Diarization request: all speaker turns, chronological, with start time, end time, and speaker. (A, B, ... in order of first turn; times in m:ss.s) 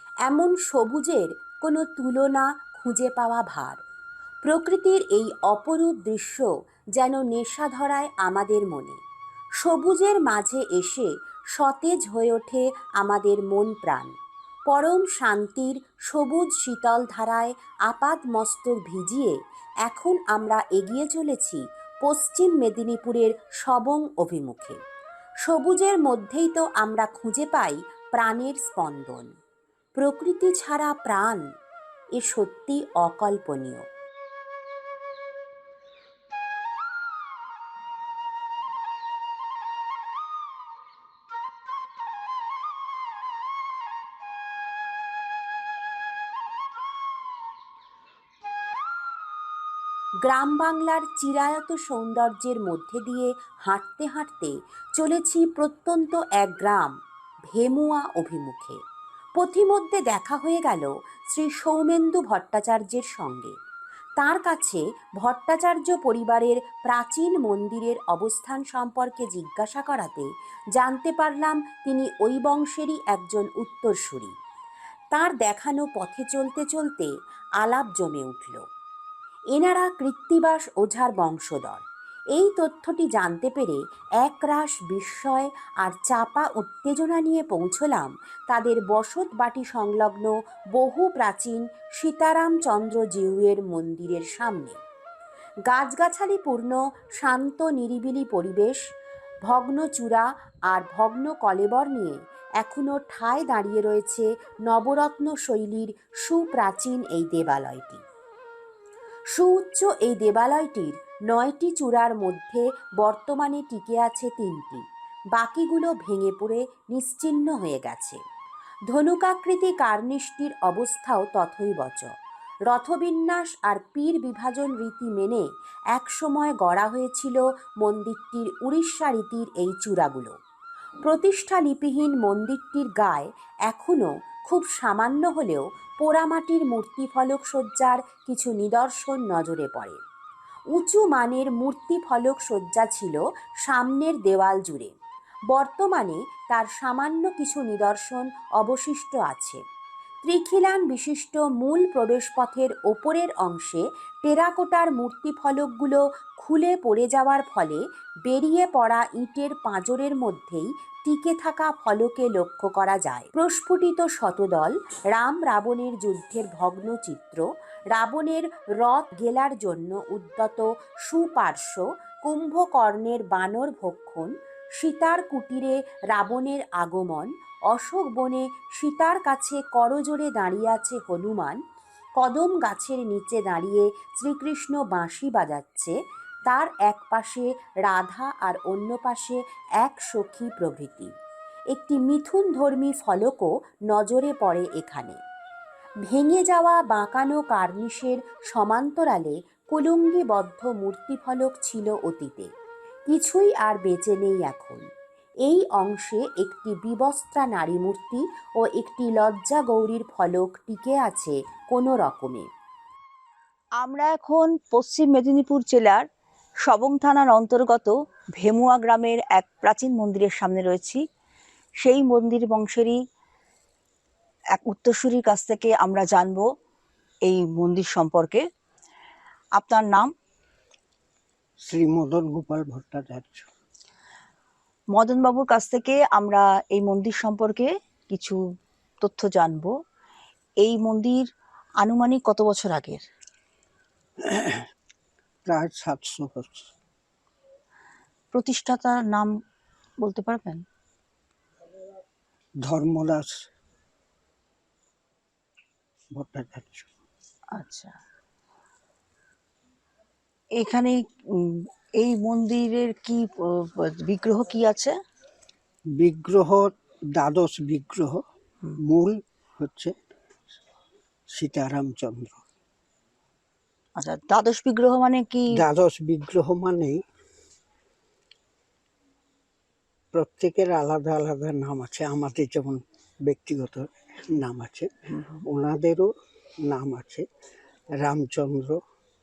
0:00.3-0:03.8 A
0:04.4-0:06.5 A
0:07.0-0:09.0 A
0:09.6-0:14.1 A
0:14.7-0:19.3 A
0:19.9-0:24.8 A
0:25.5-0:29.3 A
0:30.0-0:31.4 A
0:32.2-0:33.8 A
0:50.2-0:57.0 A
0:57.5-0:58.8 A
0:59.4-1:03.6 A
1:04.2-1:14.3 A
1:15.1-1:17.1 A
1:17.6-1:18.6 A
1:19.5-1:21.8 A
1:22.4-1:34.8 A
1:35.7-1:38.8 A
1:39.5-1:48.0 A
1:49.3-1:54.8 A
1:55.4-1:58.2 A
1:58.9-2:02.1 A
2:02.7-2:10.3 A
2:11.0-2:20.0 A
2:20.8-2:24.9 A
2:25.5-2:29.6 A
2:30.2-2:47.4 A
2:47.9-3:01.6 A
3:02.2-3:05.9 A
3:06.5-3:11.1 A
3:11.7-3:15.2 A
3:16.1-3:22.5 A
3:23.1-3:24.9 A
3:25.5-3:32.5 A
3:33.8-3:36.0 B
3:36.7-3:41.0 B
3:41.8-3:43.0 B
3:44.6-3:46.5 B
3:47.3-3:48.4 B
3:49.6-3:50.1 B
3:51.7-3:53.5 C
3:54.9-3:58.4 B
3:59.0-3:59.7 B
4:00.6-4:01.3 B
4:01.8-4:03.0 B
4:04.2-4:04.7 C
4:05.5-4:06.7 C
4:08.3-4:09.3 B
4:10.0-4:10.6 B
4:12.6-4:13.5 C
4:16.2-4:16.9 C
4:17.6-4:18.0 B
4:20.6-4:24.9 B
4:26.0-4:28.2 C
4:28.8-4:29.9 C
4:31.4-4:32.4 C
4:34.0-4:35.5 B
4:35.5-4:37.0 C
4:40.1-4:44.9 C
4:45.1-4:45.4 B
4:45.4-4:46.1 C
4:46.6-4:47.3 C
4:48.0-4:48.8 C